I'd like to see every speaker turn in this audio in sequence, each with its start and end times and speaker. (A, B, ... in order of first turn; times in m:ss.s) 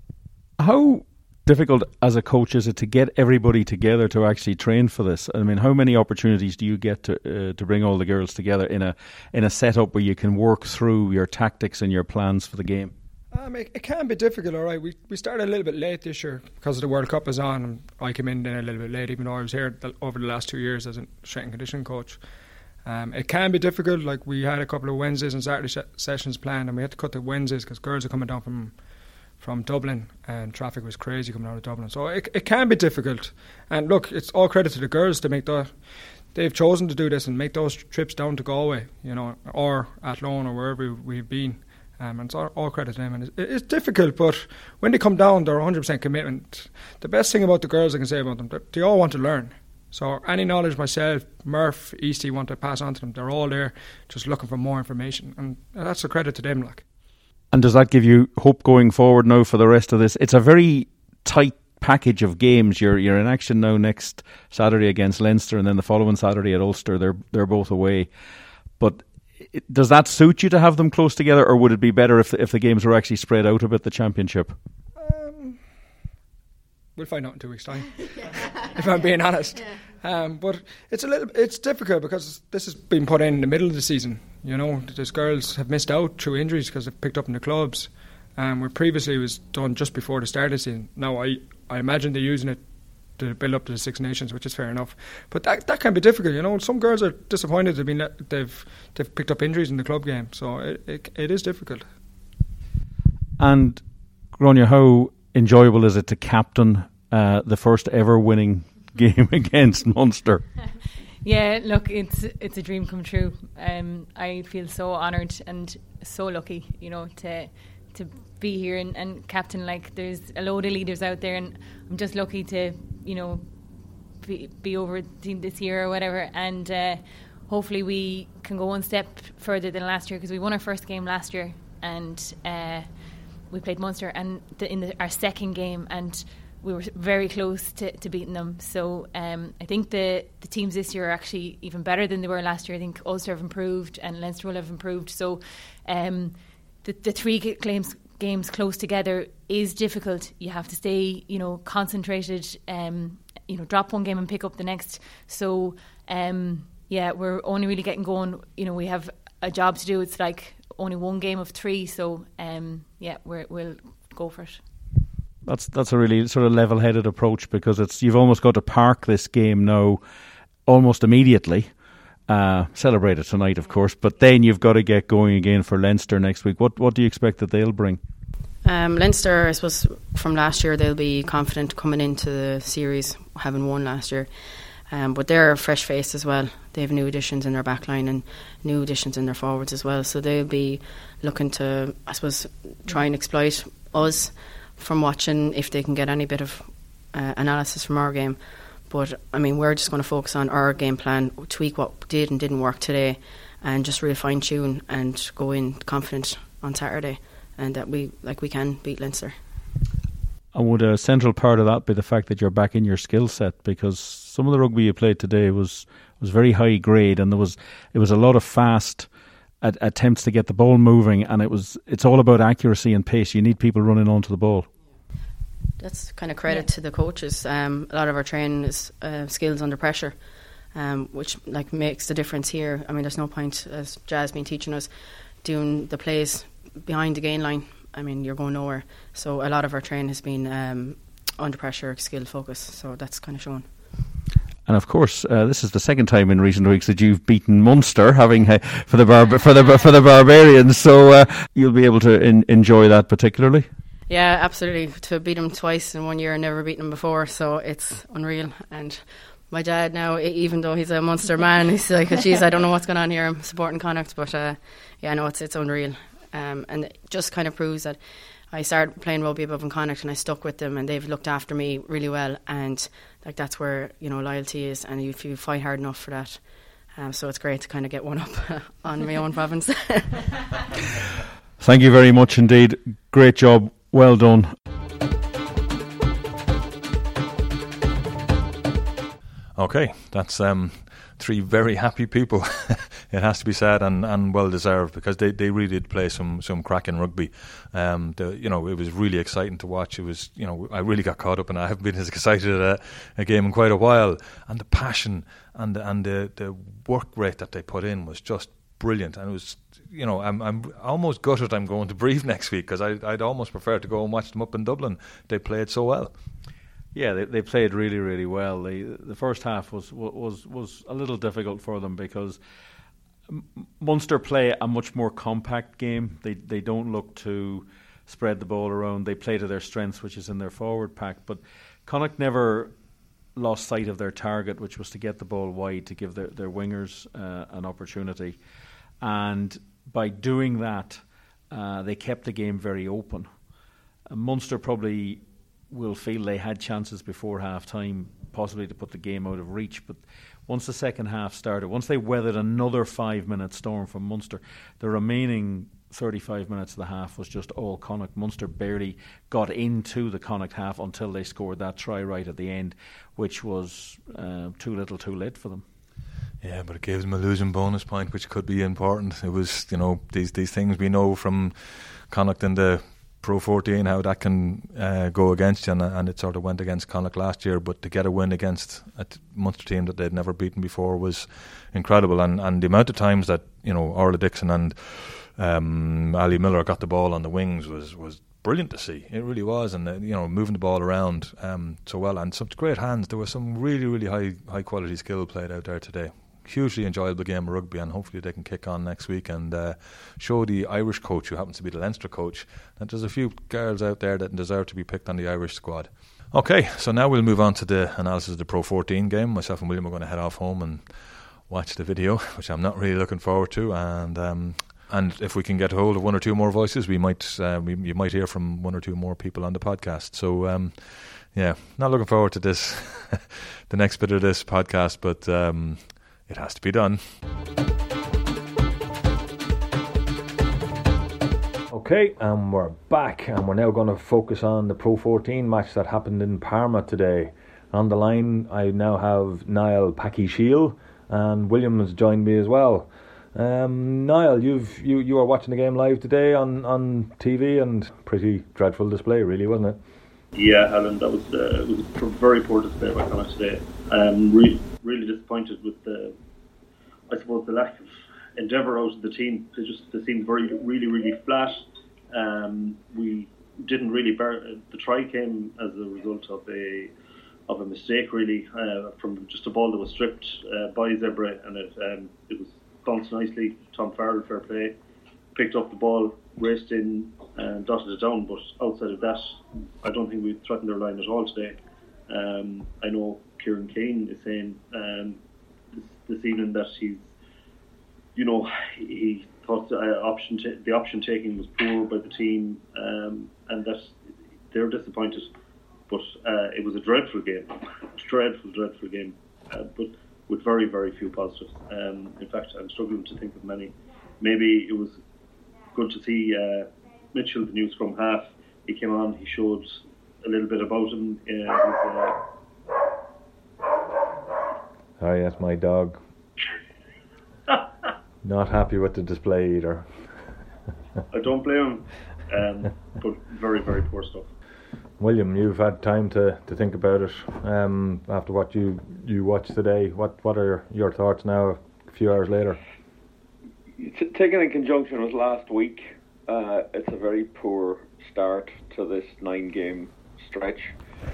0:00.6-0:12.9 A
0:13.3-0:22.2 B
0:22.8-0:28.8 B
0:29.4-0:56.8 B
0:57.5-1:08.1 A
1:08.8-1:14.6 A
1:15.0-1:15.6 B
1:17.0-1:32.6 B
1:33.1-1:41.9 B
1:43.4-1:43.8 A
1:44.3-1:50.5 A
1:51.2-2:03.5 C
2:04.2-2:44.6 C
2:45.4-2:50.0 A
2:50.6-2:51.8 A
2:52.3-2:58.0 A
2:58.6-3:04.3 D
3:04.9-3:29.4 D
3:30.5-3:39.1 A
3:39.6-3:44.7 A
3:45.8-3:50.2 D
3:50.7-4:03.7 D
4:04.6-4:13.6 A
4:14.1-4:40.4 D
4:41.6-4:44.5 A
4:49.6-5:16.1 E
5:16.9-5:22.4 A
5:23.3-5:32.7 A
5:33.4-5:38.4 A
5:39.0-5:43.3 A
5:44.1-6:05.6 A
6:06.4-6:50.9 E
6:51.5-7:07.0 E
7:11.7-7:29.8 E
7:30.3-7:36.1 F
7:37.1-7:46.9 F
7:47.5-7:54.7 F
7:55.3-8:01.6 F
8:02.1-8:05.2 F
8:05.7-8:07.1 F
8:08.2-8:13.9 F
8:14.5-8:15.3 F
8:15.9-8:25.0 F
8:25.7-8:32.2 F
8:35.0-8:36.0 E
8:38.2-8:40.0 E
8:41.1-8:44.3 F
8:45.0-8:52.6 E
8:53.8-9:00.8 G